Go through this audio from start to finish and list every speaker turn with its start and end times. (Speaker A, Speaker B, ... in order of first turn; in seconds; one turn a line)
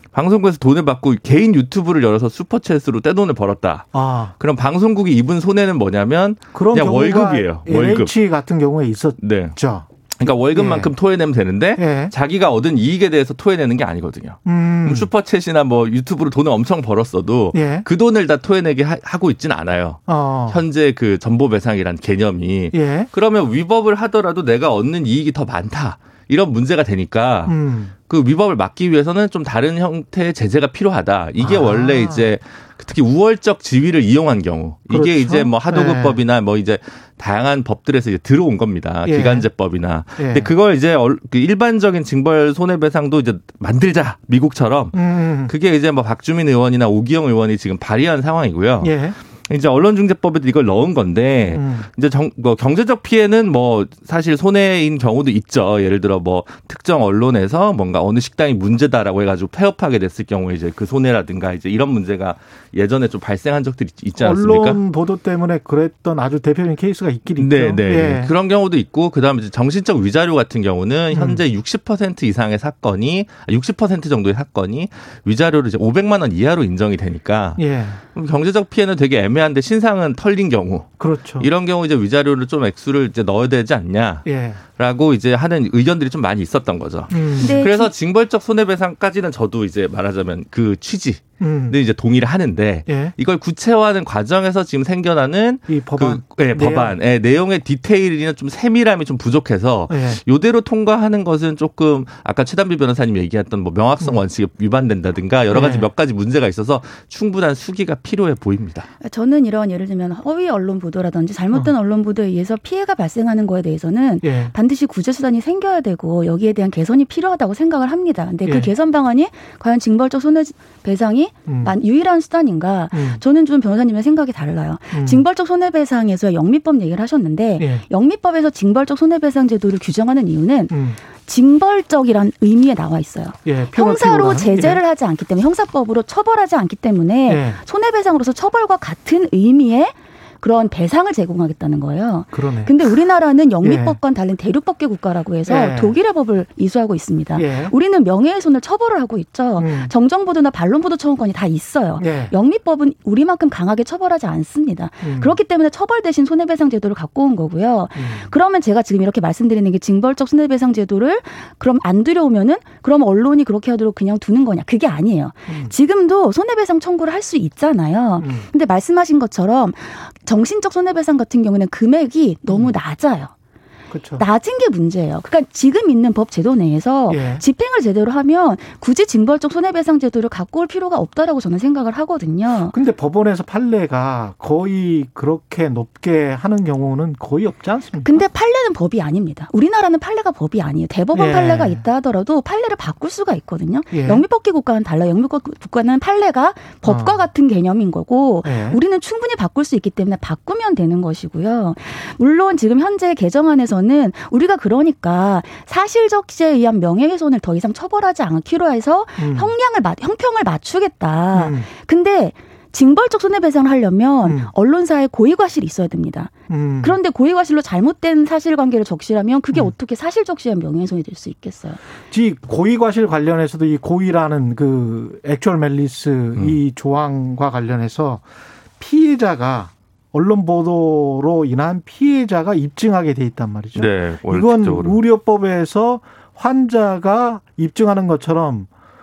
Speaker A: 0.1-8.1
Speaker B: 3.9-4.4
Speaker B: 6.5-9.9
Speaker A: 9.2-9.6
Speaker A: 10.2-27.6
Speaker B: 10.5-10.9
Speaker B: 11.8-12.1
Speaker B: 14.4-15.1
Speaker B: 17.5-17.9
Speaker B: 20.1-20.6
Speaker B: 22.7-23.1
Speaker B: 27.5-27.9
Speaker A: 28.1-64.8
Speaker B: 31.4-32.3
Speaker B: 34.9-36.2
Speaker B: 39.1-39.5
Speaker B: 40.2-40.5
Speaker B: 44.9-45.5
Speaker B: 48.8-49.2
Speaker B: 51.5-51.9
Speaker B: 64.2-68.3
Speaker A: 67.3-84.3
Speaker B: 71.1-71.4
Speaker B: 77.6-78.0
Speaker B: 81.0-81.5
Speaker B: 84.2-84.6
Speaker A: 84.8-108.9
Speaker B: 87.1-87.7
Speaker C: 87.4-87.9
Speaker B: 91.4-91.8
Speaker B: 92.9-93.2
Speaker B: 95.7-97.0
Speaker B: 99.9-100.2
Speaker B: 105.5-105.9
Speaker C: 109.0-173.3
Speaker B: 114.2-114.5
Speaker B: 118.5-118.7
Speaker B: 121.5-121.7
Speaker B: 122.9-123.2
Speaker B: 124.9-125.2
Speaker B: 130.7-131.0
Speaker B: 133.5-134.8
Speaker B: 137.3-137.6
Speaker B: 142.3-142.8
Speaker B: 143.6-144.0
Speaker B: 145.5-145.9
Speaker B: 147.4-147.7
Speaker B: 149.6-149.9
Speaker B: 152.0-152.3
Speaker B: 155.0-155.4
Speaker B: 158.0-158.3
Speaker B: 168.2-168.5
Speaker B: 172.5-172.8
Speaker B: 173.9-174.2
Speaker C: 174.2-182.7
Speaker B: 177.1-177.4
Speaker B: 182.7-188.1
Speaker C: 188.0-221.8
Speaker B: 191.1-191.8
Speaker B: 193.9-194.2
Speaker B: 196.8-197.2
Speaker B: 198.4-198.8
Speaker B: 209.2-209.5
Speaker B: 211.3-211.7
Speaker B: 214.2-214.5
Speaker B: 216.5-216.9
Speaker B: 222.1-228.2
Speaker A: 226.3-226.6
Speaker B: 228.8-238.7
Speaker A: 233.8-235.0